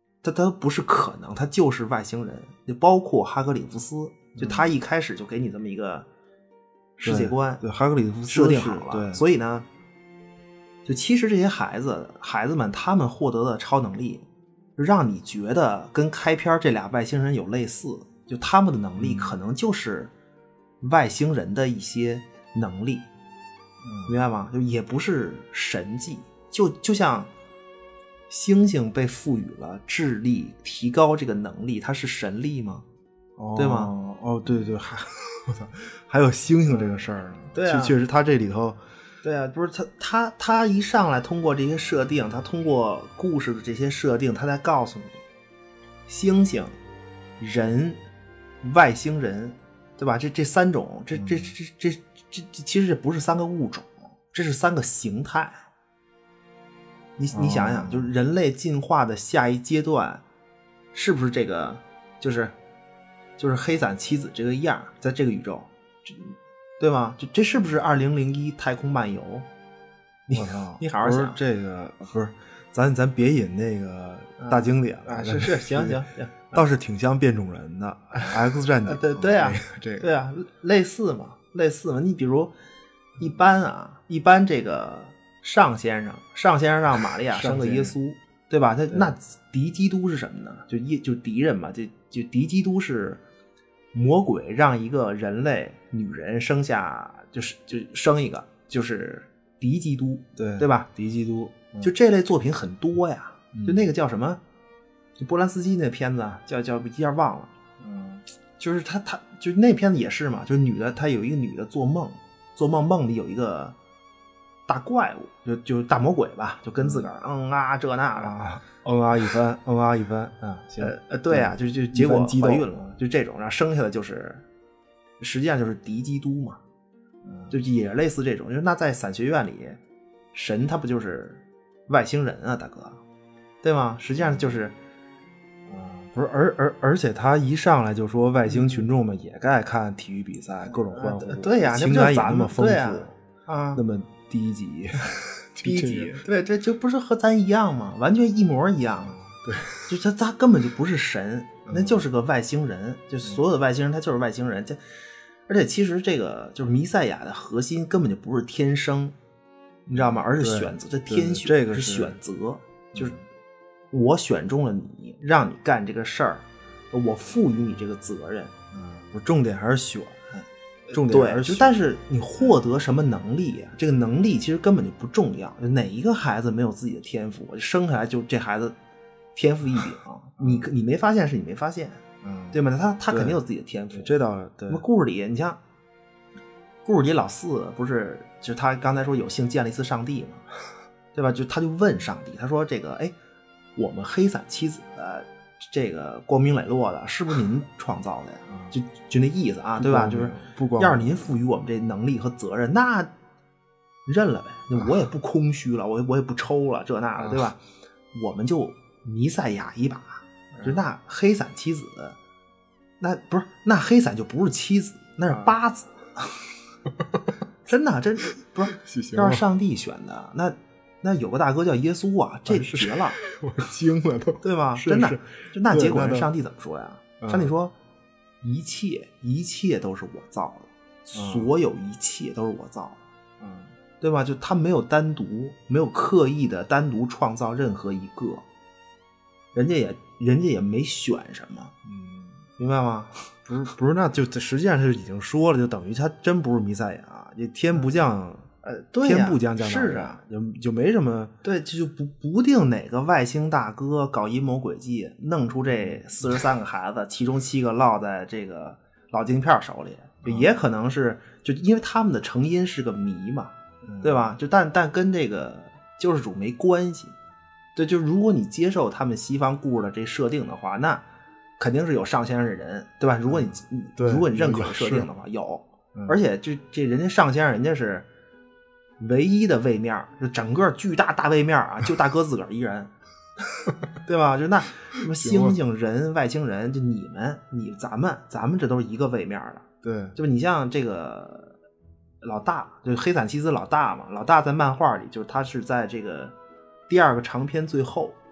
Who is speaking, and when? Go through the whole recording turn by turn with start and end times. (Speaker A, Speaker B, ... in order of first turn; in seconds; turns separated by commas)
Speaker A: 0.2-6.1, Speaker B: 4.4-4.7, Speaker A: 7.0-7.6, Speaker B: 7.0-9.2, Speaker A: 8.3-9.7, Speaker A: 10.8-14.2, Speaker A: 14.8-20.1, Speaker B: 19.0-19.4, Speaker A: 20.8-23.1, Speaker B: 23.8-24.2, Speaker A: 24.1-27.3, Speaker A: 28.3-32.8, Speaker B: 33.4-38.8, Speaker A: 33.5-33.9, Speaker A: 36.7-38.0, Speaker A: 39.2-45.2, Speaker A: 46.1-46.7, Speaker A: 47.4-48.0, Speaker A: 48.6-55.6, Speaker B: 51.1-51.5, Speaker A: 57.2-60.2, Speaker B: 57.3-58.1, Speaker A: 60.9-62.5, Speaker A: 63.4-69.5, Speaker A: 70.3-71.4, Speaker B: 70.3-76.0, Speaker A: 74.4-76.6, Speaker B: 76.5-80.1, Speaker A: 78.1-82.5, Speaker A: 83.2-93.2, Speaker B: 87.3-88.0, Speaker A: 93.9-100.9, Speaker B: 100.4-101.9, Speaker A: 101.8-104.4, Speaker B: 103.5-103.9, Speaker A: 105.2-107.5, Speaker B: 107.8-108.2, Speaker A: 108.6-113.8, Speaker A: 114.7-118.4, Speaker B: 116.8-117.1, Speaker B: 118.2-122.9, Speaker A: 120.8-124.4, Speaker A: 125.2-126.6, Speaker B: 127.2-127.6, Speaker A: 127.5-129.8, Speaker A: 130.3-133.0, Speaker A: 133.6-134.7, Speaker B: 134.2-134.6, Speaker B: 135.7-143.1, Speaker A: 138.4-138.8, Speaker A: 140.8-143.8, Speaker B: 143.7-146.2, Speaker A: 145.6-149.2, Speaker B: 149.0-149.9, Speaker A: 149.9-154.8, Speaker B: 151.7-152.1, Speaker A: 155.5-159.1, Speaker A: 159.9-163.2, Speaker B: 159.9-162.2, Speaker B: 162.9-163.2, Speaker A: 163.9-168.5, Speaker B: 168.7-171.8, Speaker A: 170.9-178.8, Speaker A: 179.3-184.2, Speaker B: 180.4-180.7, Speaker B: 182.2-183.4, Speaker B: 183.9-184.8, Speaker A: 184.7-185.6, Speaker A: 186.8-190.4, Speaker A: 191.1-193.1, Speaker A: 193.8-203.1, Speaker B: 198.5-198.7, Speaker B: 199.8-201.3, Speaker A: 204.1-207.6, Speaker B: 207.2-207.4, Speaker A: 208.1-212.2, Speaker B: 210.5-210.8, Speaker A: 213.0-216.3, Speaker B: 215.3-215.5, Speaker B: 216.9-217.3, Speaker A: 217.7-223.2, Speaker B: 218.7-219.4, Speaker B: 222.5-226.3, Speaker A: 224.4-227.7, Speaker B: 227.2-227.5, Speaker A: 228.4-233.0, Speaker B: 231.1-231.5, Speaker B: 233.4-233.7, Speaker A: 234.0-238.4, Speaker A: 239.5-241.7, Speaker B: 241.8-242.4, Speaker A: 242.6-243.4, Speaker B: 243.5-248.5, Speaker A: 248.6-250.2, Speaker B: 249.0-251.4, Speaker A: 251.4-267.1, Speaker B: 255.7-256.0, Speaker B: 260.2-260.5, Speaker B: 263.8-264.3, Speaker A: 267.7-271.0, Speaker A: 271.6-278.1, Speaker B: 273.3-275.1, Speaker A: 279.0-282.9, Speaker A: 283.9-291.6, Speaker B: 285.1-285.6, Speaker B: 289.8-290.2, Speaker A: 292.2-296.3, Speaker A: 296.9-298.1